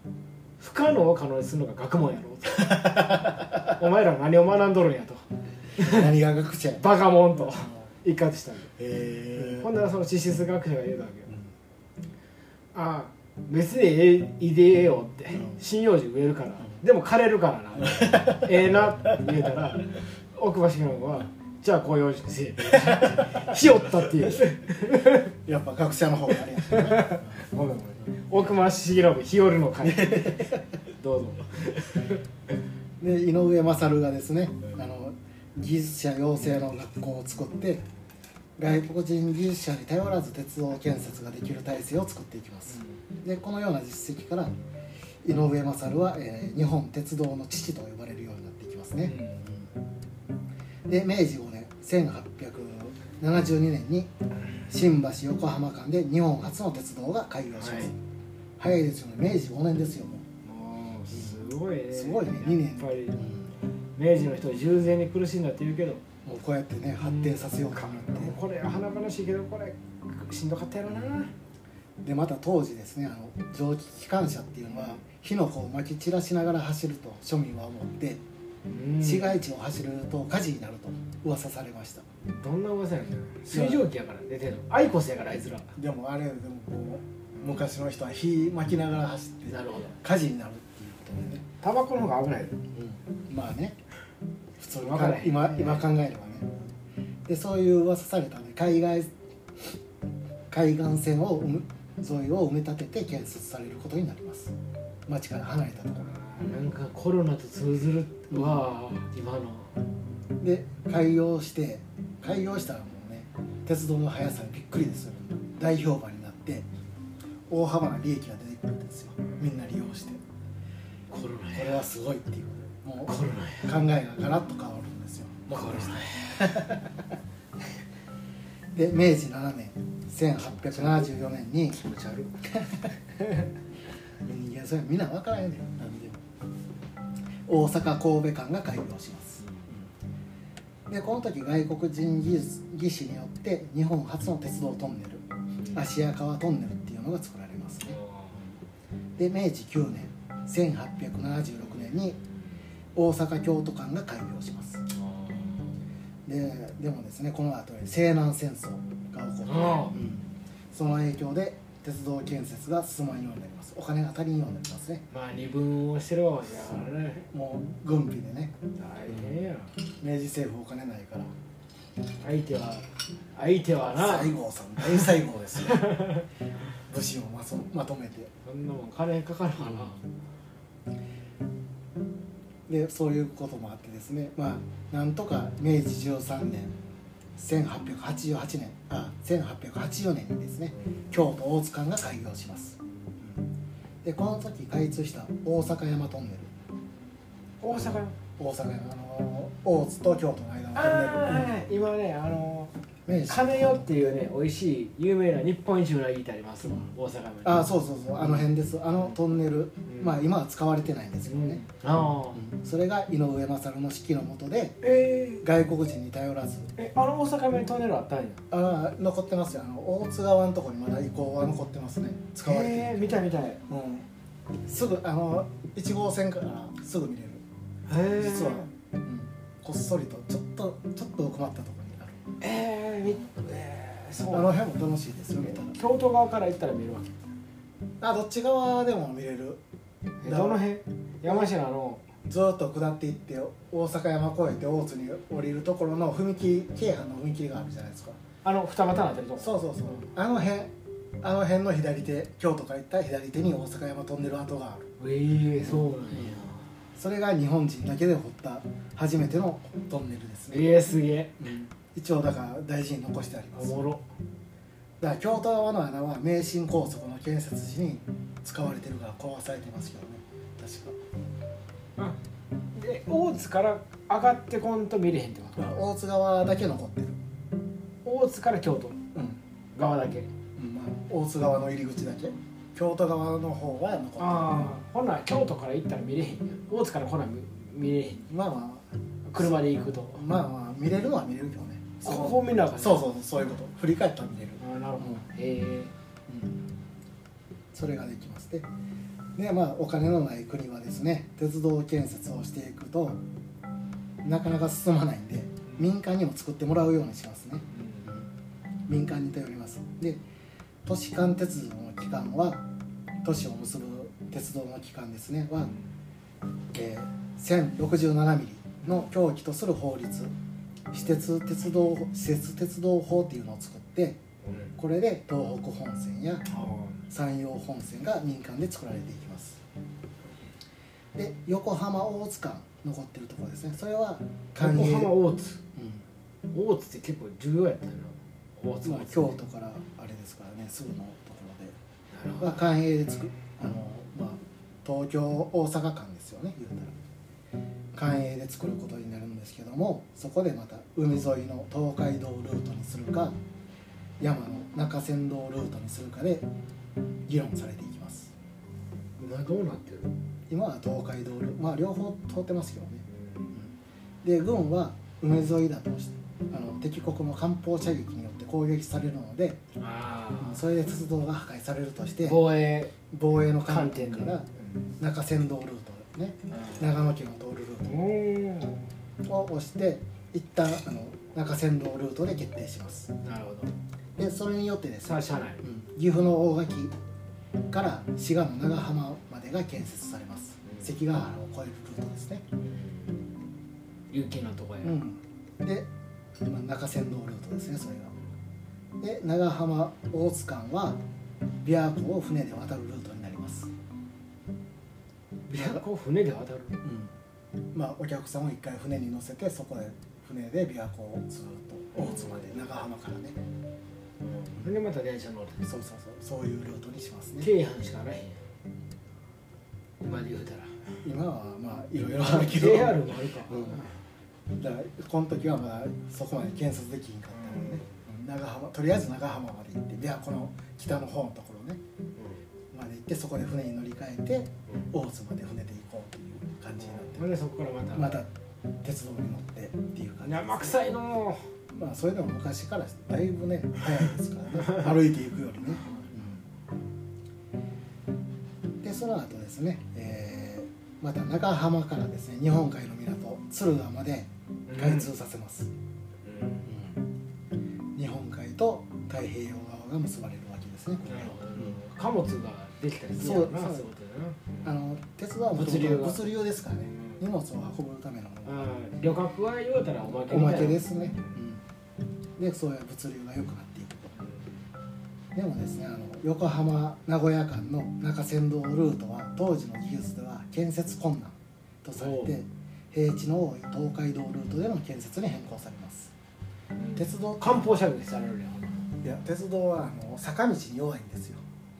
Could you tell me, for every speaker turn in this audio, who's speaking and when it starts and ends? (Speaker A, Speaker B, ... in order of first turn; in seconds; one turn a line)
Speaker A: 0.6-6.1
Speaker B: 2.7-3.5
Speaker B: 5.8-7.8
Speaker A: 6.8-8.7
Speaker B: 8.8-9.7
Speaker A: 9.3-11.3
Speaker A: 12.7-25.3
Speaker B: 17.8-18.5
Speaker B: 25.4-27.4
Speaker A: 26.7-32.2
Speaker B: 29.8-30.6
Speaker B: 33.0-37.8
Speaker B: 38.6-44.5
Speaker A: 42.7-43.0
Speaker B: 45.2-49.6
Speaker A: 49.0-49.5
Speaker B: 50.9-54.1
Speaker B: 54.7-58.0
Speaker A: 57.6-57.9
Speaker B: 58.6-60.2
Speaker A: 60.4-63.3
Speaker B: 61.1-61.4
Speaker B: 61.9-63.5
Speaker A: 64.0-66.0
Speaker B: 66.2-68.3
Speaker A: 67.0-71.3
Speaker B: 72.0-78.2
Speaker A: 74.7-75.0
Speaker A: 78.7-79.4
Speaker B: 79.0-82.0
Speaker A: 82.2-85.7
Speaker B: 83.5-83.8
Speaker B: 85.8-91.4
Speaker A: 89.5-90.0
Speaker A: 91.6-92.6
Speaker B: 92.7-93.8
Speaker B: 94.6-96.5
Speaker A: 94.8-95.9
Speaker B: 97.2-99.1
Speaker B: 100.5-104.5
Speaker B: 105.1-106.1
Speaker A: 106.1-109.8
Speaker B: 108.3-108.7
Speaker B: 110.4-116.7
Speaker B: 117.5-120.2
Speaker A: 121.1-121.8
Speaker B: 121.5-127.1
Speaker A: 123.0-123.8
Speaker A: 125.5-126.6
Speaker B: 128.7-131.8
Speaker A: 130.4-131.1
Speaker A: 131.7-132.4
Speaker B: 132.5-132.9
Speaker B: 134.2-136.2
Speaker B: 137.4-139.9
Speaker A: 139.4-139.7
Speaker B: 140.9-148.0
Speaker A: 145.6-145.9
Speaker A: 147.9-148.5
Speaker B: 149.2-152.2
Speaker B: 152.9-154.8
Speaker A: 154.9-155.8
Speaker B: 156.2-165.0
Speaker A: 159.4-160.0
Speaker A: 165.1-167.3
Speaker B: 167.3-168.5
Speaker A: 168.7-169.7
Speaker B: 169.1-169.4
Speaker B: 170.0-171.3
Speaker A: 172.2-176.2
Speaker B: 173.9-176.1
Speaker B: 176.9-178.3
Speaker A: 178.4-180.0
Speaker B: 182.7-186.7
Speaker B: 187.4-193.5
Speaker B: 194.0-196.5
Speaker A: 197.6-198.1
Speaker B: 197.7-201.5
Speaker A: 200.7-202.7
Speaker B: 203.1-204.0
Speaker A: 203.3-208.4
Speaker B: 207.4-211.6
Speaker A: 209.8-210.2
Speaker A: 211.3-212.4
Speaker B: 212.3-214.8
Speaker A: 214.8-215.4
Speaker B: 215.4-216.7
Speaker A: 216.8-218.4
Speaker B: 218.5-224.1
Speaker A: 222.4-223.6
Speaker B: 224.6-227.4
Speaker A: 227.9-228.7
Speaker B: 228.1-232.3
Speaker A: 232.4-234.6
Speaker B: 234.3-235.7
Speaker A: 235.4-237.2
Speaker B: 238.0-239.6
Speaker A: 240.2-242.1
Speaker B: 240.2-240.6
Speaker B: 242.2-248.2
Speaker A: 248.4-250.1
Speaker B: 249.4-254.9
Speaker A: 255.0-256.6
Speaker B: 255.6-256.4
Speaker B: 256.9-260.7
Speaker A: 260.5-261.4
Speaker B: 261.4-263.8
Speaker A: 263.5-264.1
Speaker B: 265.0-271.0
Speaker A: 272.7-275.8
Speaker B: 275.6-277.2
Speaker A: 278.0-279.0
Speaker B: 279.1-279.4
Speaker A: 279.7-280.3
Speaker B: 280.6-284.7
Speaker A: 284.2-288.3
Speaker B: 288.3-288.8
Speaker A: 289.2-290.2
Speaker B: 290.1-295.2
Speaker A: 292.0-293.1
Speaker A: 294.6-295.9
Speaker B: 296.3-296.6
Speaker B: 297.7-298.7
Speaker B: 299.4-303.2
Speaker B: 304.2-308.2
Speaker A: 307.7-308.2
Speaker B: 308.9-310.2
Speaker B: 310.8-312.6
Speaker B: 313.2-315.7
Speaker B: 316.7-320.3
Speaker A: 318.8-319.1
Speaker B: 320.9-324.2
Speaker A: 324.4-324.8
Speaker B: 324.8-326.4
Speaker A: 326.5-327.1
Speaker B: 327.1-329.6
Speaker B: 331.1-335.1
Speaker A: 334.6-335.6
Speaker B: 335.7-336.0
Speaker A: 336.5-339.4
Speaker B: 338.8-341.8
Speaker A: 342.1-342.6
Speaker B: 342.4-346.9
Speaker B: 347.9-353.4
Speaker B: 354.2-356.5
Speaker B: 357.3-358.3
Speaker A: 359.2-360.1
Speaker B: 360.5-369.6
Speaker A: 363.1-363.6
Speaker A: 369.8-370.6
Speaker B: 370.4-372.4
Speaker A: 372.2-372.9
Speaker B: 373.1-374.5
Speaker A: 373.6-374.9
Speaker B: 375.0-378.0
Speaker A: 376.5-376.9
Speaker A: 377.8-378.9
Speaker B: 379.2-383.1
Speaker A: 383.2-383.7
Speaker B: 384.2-386.9
Speaker A: 385.0-385.6
Speaker B: 387.7-392.4
Speaker A: 390.6-390.9
Speaker A: 392.6-393.3
Speaker A: 394.1-395.0
Speaker B: 394.8-395.9
Speaker B: 396.4-398.1
Speaker B: 399.0-401.0
Speaker B: 401.6-403.7
Speaker A: 405.5-406.8
Speaker B: 405.5-405.8
Speaker B: 406.8-407.1
Speaker B: 407.7-413.4
Speaker A: 411.9-412.6
Speaker A: 414.2-415.7
Speaker B: 415.6-417.5
Speaker A: 417.4-418.4
Speaker A: 420.0-420.9
Speaker B: 421.0-423.8
Speaker A: 422.2-423.9
Speaker B: 424.5-431.8
Speaker A: 427.3-428.0
Speaker B: 432.7-437.3
Speaker A: 436.8-438.2
Speaker B: 437.9-438.3
Speaker B: 438.8-440.9
Speaker A: 440.2-441.4
Speaker B: 441.7-446.4
Speaker A: 445.8-446.1
Speaker B: 448.8-455.7
Speaker A: 454.7-455.1
Speaker A: 456.2-456.7
Speaker B: 456.6-457.1
Speaker B: 457.9-461.8
Speaker A: 461.0-464.7
Speaker B: 463.2-463.9
Speaker B: 464.6-468.7
Speaker A: 465.5-466.3
Speaker A: 466.9-467.2
Speaker A: 468.4-471.4
Speaker B: 470.0-471.6
Speaker B: 472.4-474.1
Speaker A: 474.2-474.5
Speaker B: 475.3-486.1
Speaker A: 481.9-482.3
Speaker A: 486.7-488.9
Speaker B: 486.9-487.9
Speaker B: 489.0-491.4